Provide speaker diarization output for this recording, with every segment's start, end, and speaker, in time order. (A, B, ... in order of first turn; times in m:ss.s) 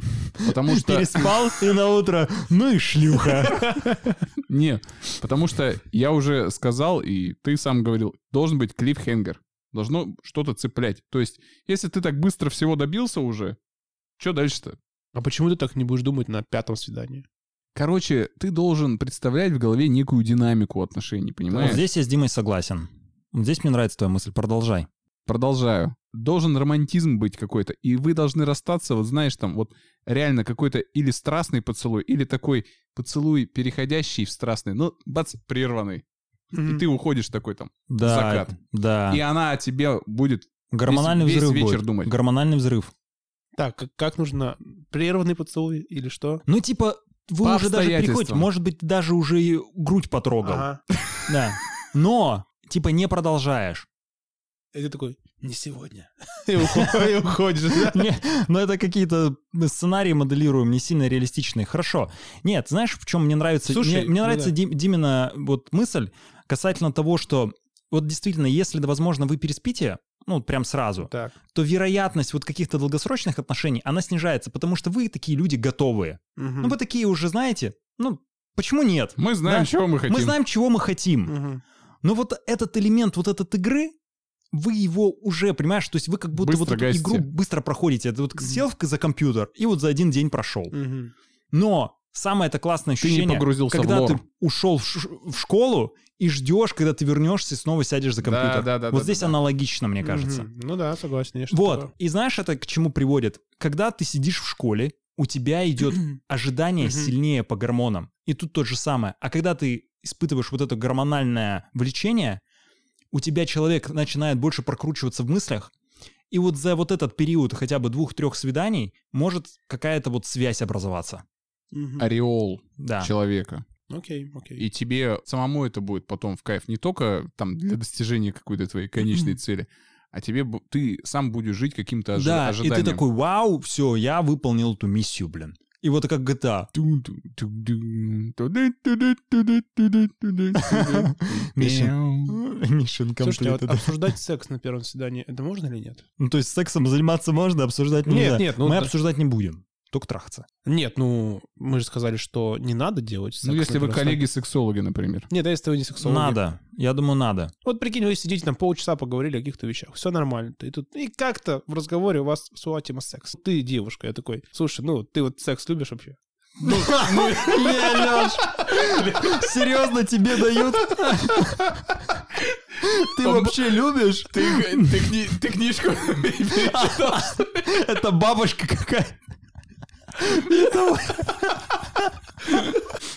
0:00.3-0:03.8 A
0:00.4-0:01.5 B
0:03.5-0:04.0 C
0:04.5-0:13.6 B
0:14.2-0:14.8 B
0:15.1-0:17.2 C
0:17.8-0:21.8 B
0:21.5-0:21.8 C
0:21.6-0:24.9 A
0:25.3-0:36.0 B
0:36.5-0:36.8 C
0:36.6-0:38.6 B
0:37.9-0:39.2 A
0:39.1-0:42.1 B
0:40.7-0:42.9 A
0:43.6-0:46.4 C
0:46.5-0:50.7 A
0:47.4-0:48.5 B
0:50.4-0:50.8 C
0:51.3-0:53.9 A
0:54.7-0:58.0 C
0:56.7-0:57.0 A
0:57.8-1:21.3 A
1:03.7-1:04.5 C
1:11.1-1:11.4 C
1:16.4-1:16.8 C
1:19.2-1:20.4 B
1:21.3-1:21.6 C
1:22.0-1:23.9 A
1:24.5-1:30.7 A
1:26.4-1:27.3 B
1:30.7-1:31.1 C
1:31.5-1:40.5 A
1:33.0-1:34.2 B
1:38.2-1:39.4 B
1:40.0-1:41.9 C
1:41.5-1:52.4 A
1:46.8-1:47.1 C
1:53.1-1:55.7 A
1:56.3-2:01.2 A
2:01.7-2:02.1 C
2:02.0-2:03.6 B
2:02.8-2:03.1 A
2:03.9-2:04.7 C
2:04.6-2:13.0 B
2:12.2-2:16.7 A
2:16.7-2:22.4 B
2:20.6-2:24.1 A
2:23.2-2:26.0 C
2:26.2-2:30.5 A
2:28.1-2:28.9 C
2:30.6-2:34.2 C
2:33.4-2:35.3 B
2:35.3-2:36.4 C
2:36.0-2:37.5 A
2:37.6-2:46.2 C
2:46.6-2:52.0 A
2:46.6-2:48.2 B
2:52.8-2:55.2 A
2:53.2-2:57.6 B
2:56.5-2:59.2 A
3:00.2-3:02.2 A
3:02.4-3:02.8 B